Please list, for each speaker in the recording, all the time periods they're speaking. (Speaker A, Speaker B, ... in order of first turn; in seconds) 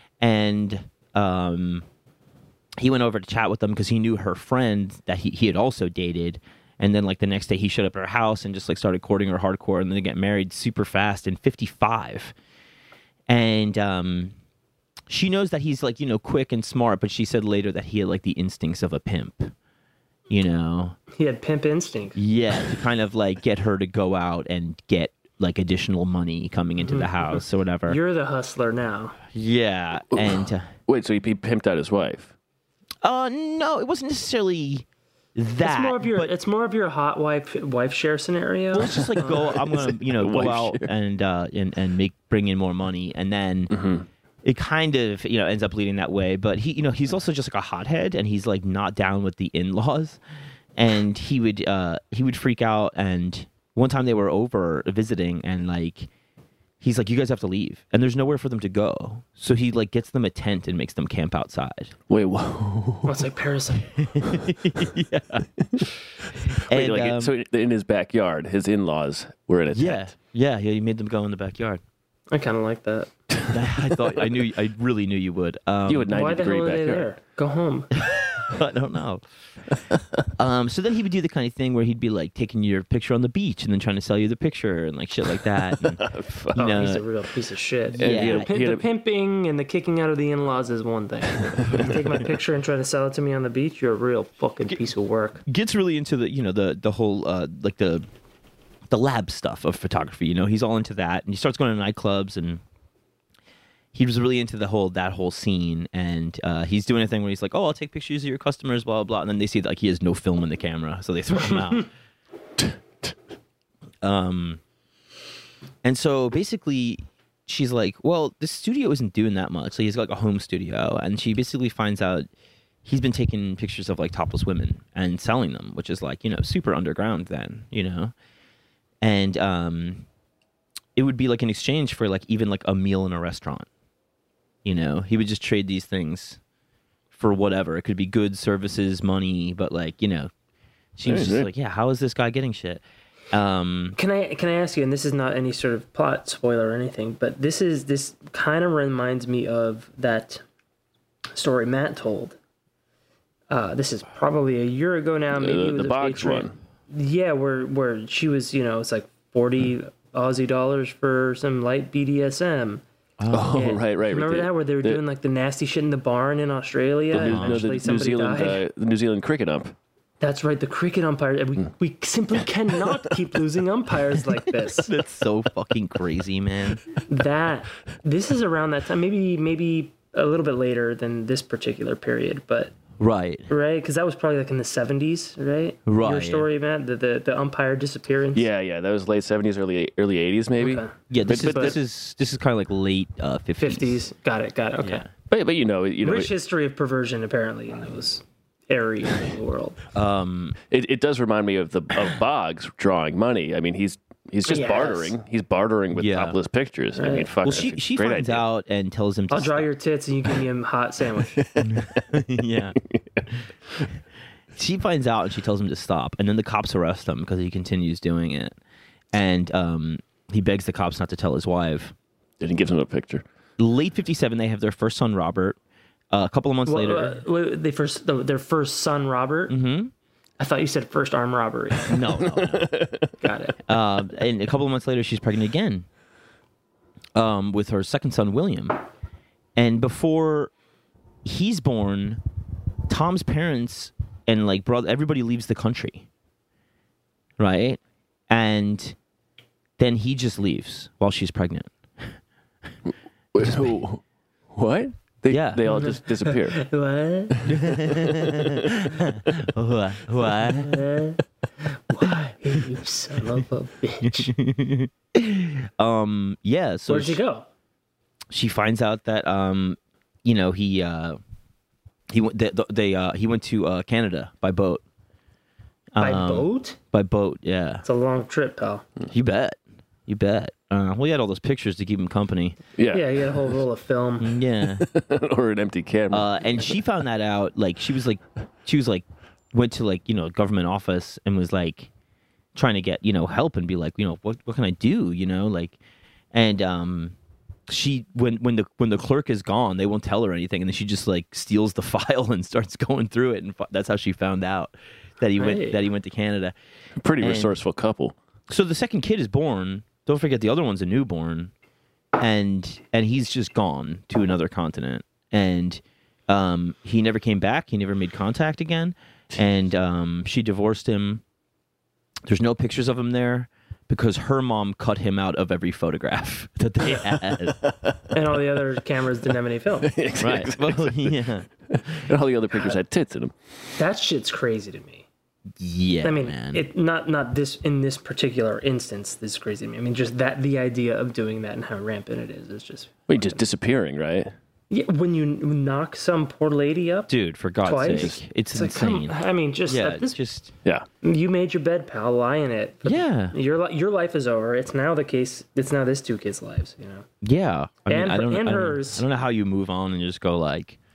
Speaker A: 0.2-1.9, 2.8-12.3, 13.3-14.3, 15.1-19.5, 20.3-21.0, 22.1-28.0, 29.3-30.7, 33.0-36.3, 38.7-43.7, 44.4-50.2, 50.8-56.1, 56.8-61.9, 64.0-65.9, 66.5-67.3, 69.7-71.8, 73.5-76.1, 78.0-79.2, 80.4-87.0, 87.9-88.5, 95.5-98.0, 98.9-102.6, 103.9-111.9, 114.0-114.6, 115.8-122.3, 122.8-128.1, 129.0-130.1, 131.0-133.7, 134.6-136.4, 137.1-140.3, 141.0-144.0, 163.2-163.8, 167.2-167.7, 174.9-176.8, 183.0-183.5, 185.9-186.5, 191.1-194.0, 194.8-195.1, 199.9-200.6, 205.9-206.4, 207.4-209.7, 211.6-212.8, 214.6-218.6, 219.1-221.9, 223.6-225.6, 226.1-227.2, 229.5-229.9, 231.9-232.8, 233.7-235.9, 237.1-238.8, 239.6-240.5, 241.2-242.2, 242.9-246.1, 247.4-249.0, 249.8-252.1, 253.4-253.8, 255.3-255.7, 257.5-260.8, 264.0-267.2, 268.3-271.2, 272.1-274.8, 275.9-277.8, 279.1-282.6, 284.2-284.9, 286.1-291.9, 292.6-295.8, 296.3-297.1, 297.7-306.6, 307.2-307.6, 308.5-311.5, 312.2-321.2, 322.2-327.6, 330.2-332.0, 335.6-336.6, 347.1-350.5, 352.9-353.4, 357.2-360.8
Speaker B: 21.1-22.2, 26.8-29.2, 35.6-39.3, 63.0-64.0, 72.3-73.1, 76.1-77.9, 86.5-95.4, 144.0-150.4, 151.3-152.4, 153.5-162.8, 163.5-168.6, 170.2-174.9, 177.1-182.7, 183.5-188.5, 190.6-191.8, 193.6-195.1, 196.0-199.8, 204.5-205.1, 207.0-207.3, 209.3-211.4, 226.7-229.5, 230.4-232.0, 233.2-233.6, 255.7-257.4, 260.5-264.3, 266.9-267.5, 276.0-276.8, 277.8-278.9, 282.9-284.3, 305.4-305.8, 328.1-329.9, 333.8-335.1, 336.0-343.4, 344.7-347.1, 347.6-350.2, 351.0-357.0, 357.9-359.0
Speaker C: 30.1-32.3, 38.9-40.9, 43.7-44.1, 62.1-63.2, 66.5-70.1, 75.9-77.1, 85.8-86.7, 88.0-88.8, 91.5-91.9, 112.6-113.1, 141.1-141.5, 155.3-156.6, 163.3-165.0, 167.1-169.8, 188.3-191.8, 195.3-196.3, 200.7-208.4, 211.4-211.7, 212.9-213.2, 222.4-223.2, 232.3-233.1, 253.3-254.0, 254.5-256.6, 257.4-258.4, 282.8-283.1, 284.8-286.7, 307.0-308.1, 327.6-328.1, 329.8-331.2, 331.7-333.4, 343.1-344.3, 347.9-348.2